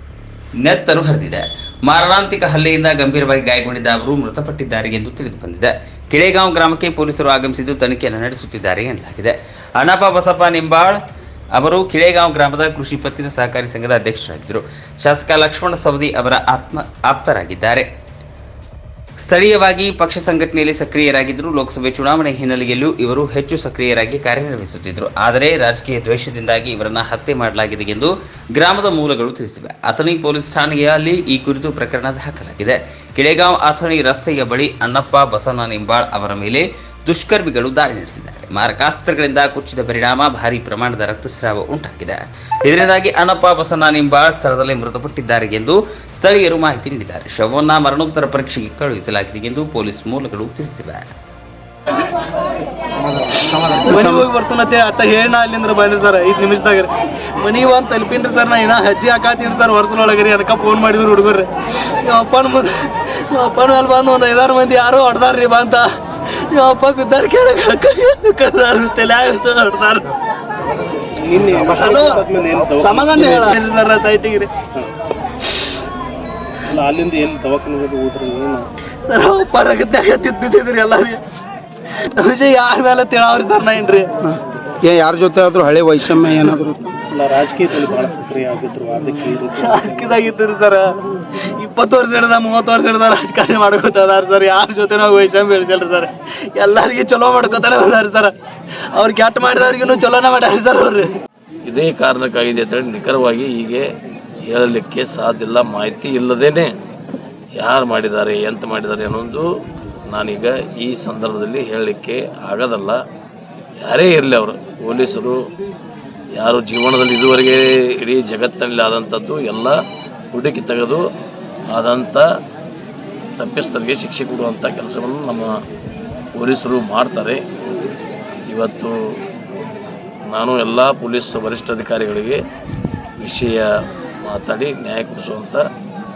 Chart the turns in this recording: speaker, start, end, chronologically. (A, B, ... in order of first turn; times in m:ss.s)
0:00.6-0:11.0 A
0:11.6-0:17.9 A
0:19.2-0:51.1 A
0:53.5-1:01.5 B
0:53.7-0:54.2 C
1:02.0-1:10.1 B
1:11.1-1:13.6 D
1:11.6-1:12.2 B
1:12.8-1:14.5 B
1:16.7-1:18.7 D
1:19.0-1:21.2 B
1:22.1-1:24.1 B
1:24.2-1:26.8 C
1:27.1-1:30.2 D
1:29.6-1:30.9 B
1:31.6-1:38.3 B
1:38.9-1:41.1 B
1:41.6-1:43.8 E
1:44.4-1:46.7 E
1:47.6-1:49.5 E
1:50.1-1:53.0 E
1:53.8-1:55.4 E
1:56.4-1:59.8 E
2:00.3-2:01.0 E
2:01.7-2:02.2 E
2:03.4-2:05.5 E
2:06.4-2:07.4 E
2:08.5-2:08.9 E
2:10.3-2:12.4 E
2:13.2-2:13.6 E
2:14.2-2:15.6 E